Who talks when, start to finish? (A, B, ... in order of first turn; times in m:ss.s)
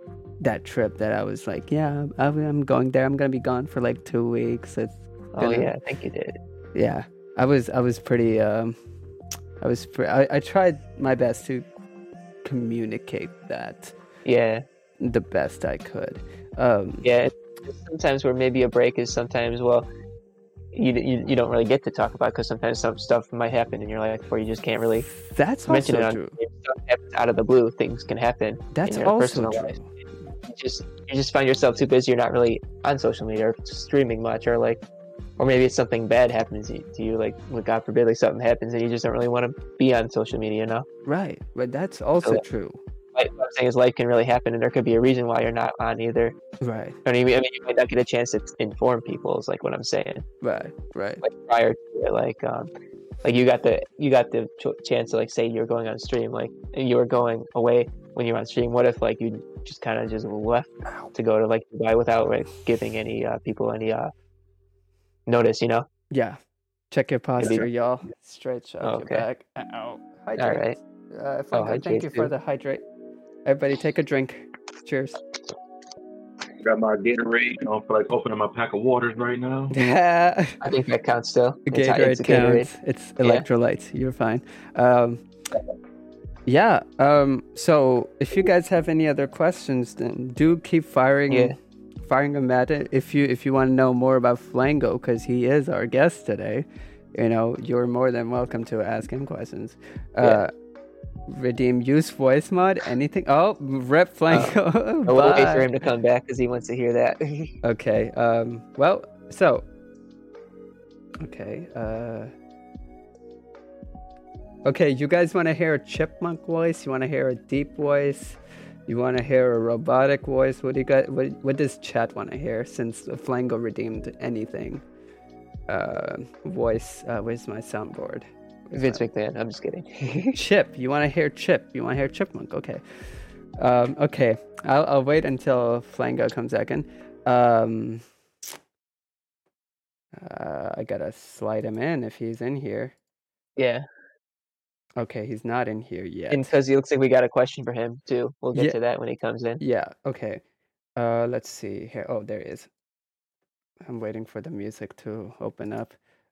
0:00.4-0:05.7 A
0:05.3-0:06.4 B
0:06.7-0:08.8 A
0:09.6-0:11.7 A
0:12.4-0:14.0 A
0:14.2-0:14.6 B
0:15.0-0:17.1 A
0:17.0-0:19.9 B
0:20.7-0:25.1 B
0:25.1-0:26.4 A
0:25.7-0:29.8 B
0:28.7-0:29.9 A
0:30.5-0:34.8 B
0:35.4-0:40.9 B
0:41.1-0:42.8 A
0:43.2-0:46.4 B
0:46.6-0:47.0 A
0:47.0-0:50.2 B
0:50.4-0:51.2 A
0:51.2-0:52.7 B
0:53.2-1:04.1 B
1:05.3-1:05.9 B
1:06.1-1:06.4 A
1:06.9-1:12.8 A
1:08.8-1:09.3 B
1:10.4-1:10.8 B
1:11.5-1:12.3 B
1:13.4-1:15.2 A
1:16.6-1:19.8 C
1:19.7-1:20.7 A
1:20.6-1:22.7 B
1:21.7-1:25.2 A
1:26.5-1:40.5 A
1:31.3-1:31.6 B
1:41.3-1:45.7 A
1:44.3-1:47.6 B
1:47.6-1:49.6 A
1:51.2-1:52.3 A
1:54.7-2:04.8 A
2:05.7-2:09.0 A
2:08.7-2:10.4 B
2:10.3-2:12.8 A
2:13.6-2:18.0 A
2:20.1-2:22.9 A
2:23.6-2:23.8 B
2:25.0-2:26.5 A
2:26.3-2:29.6 B
2:29.6-2:30.4 A
2:31.0-2:32.7 A
2:33.8-2:36.0 A